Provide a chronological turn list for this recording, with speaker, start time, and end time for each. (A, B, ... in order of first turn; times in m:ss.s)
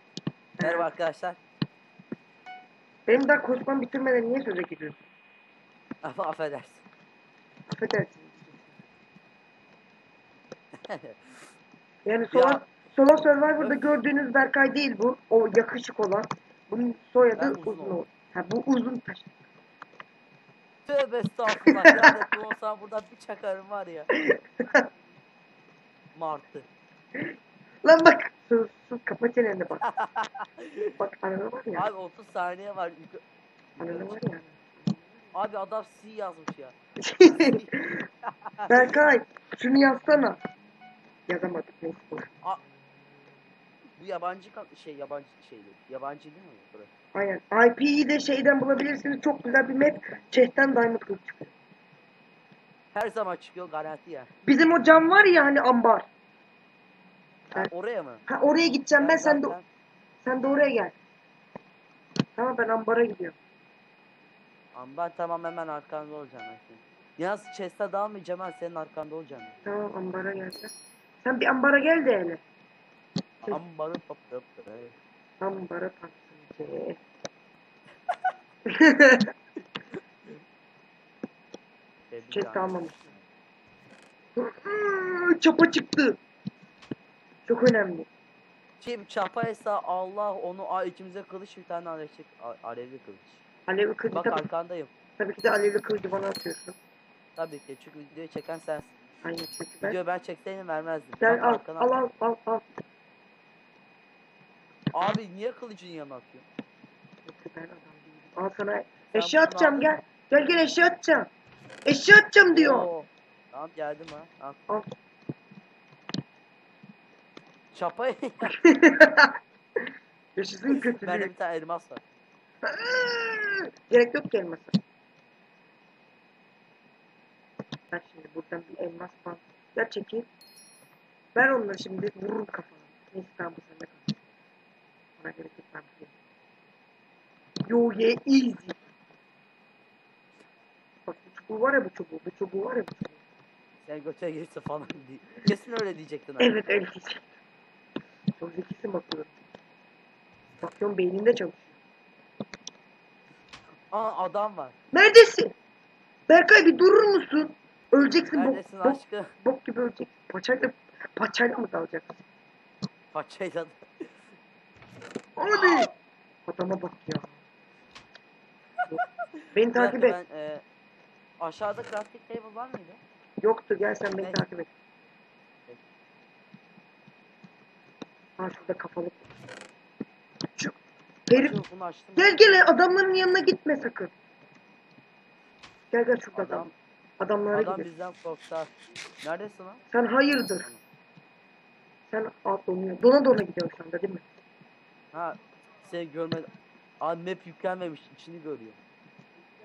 0:00.6-0:00.9 A
0:00.6-0:01.4 B
0:03.0-0:05.0 A
0:06.0-0:06.8 B
0:07.7-0:08.7 A
0:10.8-0:11.2 B
0:12.0-0:19.3 A
0:12.3-0:12.6 B
0:13.6-0:14.0 B
0:17.4-0:18.0 B
0:20.9-0:24.1 B
0:21.6-0:22.1 A
0:24.2-0:24.8 A
0:26.1-0:26.7 B
0:27.8-0:29.8 A
0:29.8-0:30.9 B
0:31.0-0:31.9 A
0:31.8-0:33.2 B
0:33.8-0:34.4 B
0:33.8-0:35.3 A
0:35.3-0:37.7 B
0:37.0-0:38.0 A
0:38.2-0:38.8 B
0:38.7-0:40.4 A
0:41.3-0:42.3 A
0:44.0-0:46.9 B
0:47.1-0:51.5 A
0:52.9-0:54.3 B
0:54.4-0:56.0 A
0:57.5-0:58.2 B
0:58.3-0:59.5 A
0:59.0-0:59.6 B
1:00.2-1:00.9 A
1:02.4-1:03.3 A
1:04.7-1:09.5 B
1:09.6-1:12.4 A
1:13.5-1:15.0 B
1:15.4-1:17.0 A
1:18.7-1:19.3 A
1:22.1-1:23.0 B
1:22.3-1:23.1 A
1:24.4-1:26.2 A
1:27.4-1:28.1 A
1:28.8-1:33.4 B
1:33.7-1:34.4 A
1:34.1-1:34.9 B
1:35.2-1:36.8 A
1:37.4-1:38.9 B
1:39.2-1:40.0 A
1:39.8-1:41.9 B
1:41.2-1:42.6 A
1:44.9-1:46.4 B
1:47.2-1:51.3 A
1:49.1-1:49.9 B
1:51.8-1:52.9 A
1:52.5-1:54.6 B
1:57.7-1:58.5 B
1:58.4-1:59.3 A
2:00.4-2:01.3 A
2:00.7-2:02.0 B
2:02.7-2:04.8 A
2:07.9-2:10.3 A
2:11.3-2:14.1 A
2:15.2-2:16.1 A
2:17.7-2:18.8 A
2:21.1-2:23.2 A
2:23.8-2:26.5 B
2:26.4-2:27.3 A
2:28.4-2:29.3 A
2:30.6-2:31.7 A
2:33.9-2:34.8 B
2:34.9-2:35.5 A
2:36.3-2:42.2 A
2:38.3-2:39.3 B
2:43.1-2:44.0 B
2:45.4-2:45.9 A
2:46.5-2:47.4 A
2:49.5-2:50.2 A
2:49.7-2:50.6 B
2:51.4-2:53.0 B
2:53.4-2:54.7 A
2:58.4-2:59.3 A
3:00.6-3:01.6 A
3:01.3-3:02.4 B
3:02.2-3:04.1 A
3:05.9-3:06.7 A
3:06.3-3:06.7 B
3:07.2-3:07.9 A
3:07.5-3:09.8 B
3:09.9-3:10.7 A
3:12.1-3:14.2 A
3:15.1-3:16.5 B
3:17.0-3:18.8 B